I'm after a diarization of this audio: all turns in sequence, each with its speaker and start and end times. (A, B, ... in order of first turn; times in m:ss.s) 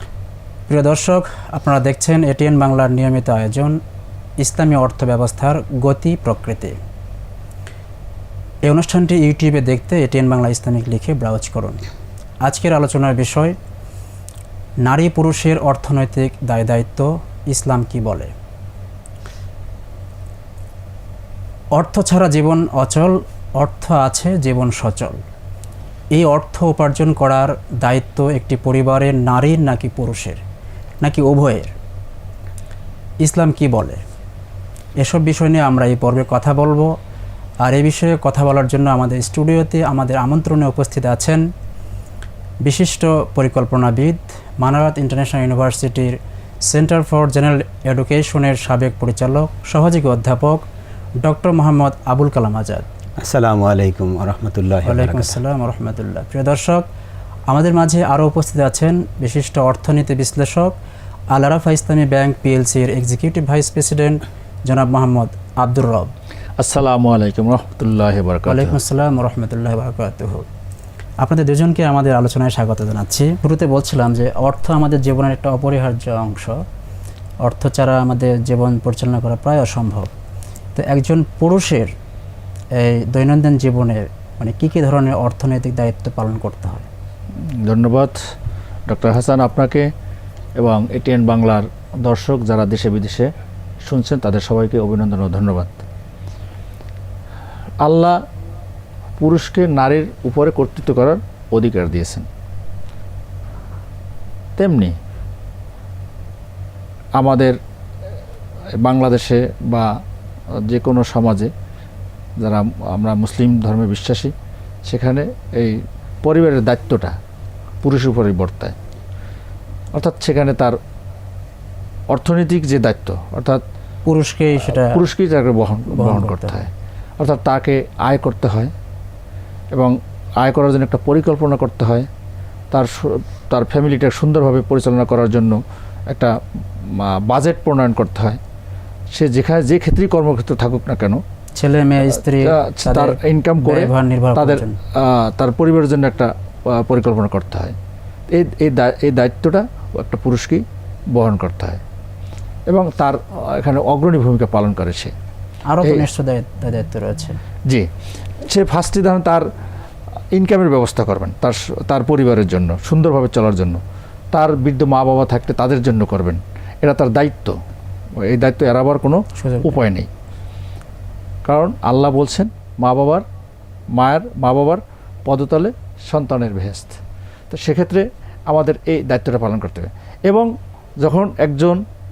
0:00.7-0:03.8 A
0:04.4-0:06.8 A
0:08.6-0:11.8 A
0:12.4-0:13.6 A
0:14.8-0:18.3 A
0:21.8-0:25.2 A
0:26.1-0:30.4 A
0:31.0-0:31.7 A
0:33.2-0:34.0 A
0:35.0-0:36.9 A
0:37.6-0:41.4 A
0:42.6-0:50.6 A
0:51.2-0:52.9 A
0:53.2-0:55.4 B
0:54.8-0:56.8 A
0:57.5-1:00.7 A
1:01.3-1:06.1 A
1:06.6-1:08.8 C
1:08.5-1:10.5 A
1:11.2-1:16.6 A
1:17.4-1:20.1 A
1:20.8-1:21.9 A
1:22.8-1:26.9 A
1:27.6-1:28.2 C
1:28.9-1:29.9 C
1:30.6-1:33.3 C
1:33.8-1:35.8 C
1:37.8-1:38.2 C
1:39.2-1:42.3 C
1:44.6-1:44.9 C
1:47.2-1:47.6 C
1:48.8-1:49.9 C
1:50.6-1:51.5 C
1:52.4-1:54.3 C
1:54.9-1:57.1 C
1:57.8-1:58.7 C
1:59.9-2:00.8 C
2:02.1-2:03.6 C
2:04.0-2:05.0 A
2:04.6-2:08.7 C
2:05.9-2:06.6 A
2:09.7-2:12.1 C
2:12.7-2:15.6 C
2:16.9-2:18.4 C
2:19.1-2:21.2 C
2:21.6-2:24.8 A
2:22.4-2:27.8 C
2:28.3-2:30.6 C
2:31.1-2:31.8 C
2:32.7-2:35.1 C
2:35.7-2:37.4 A
2:35.8-2:36.1 C
2:38.5-2:39.5 C
2:40.3-2:43.8 C
2:44.3-2:47.6 C
2:48.2-2:50.1 C
2:49.4-2:49.8 A
2:51.5-2:53.2 C
2:54.0-2:57.0 C
2:57.5-3:01.8 C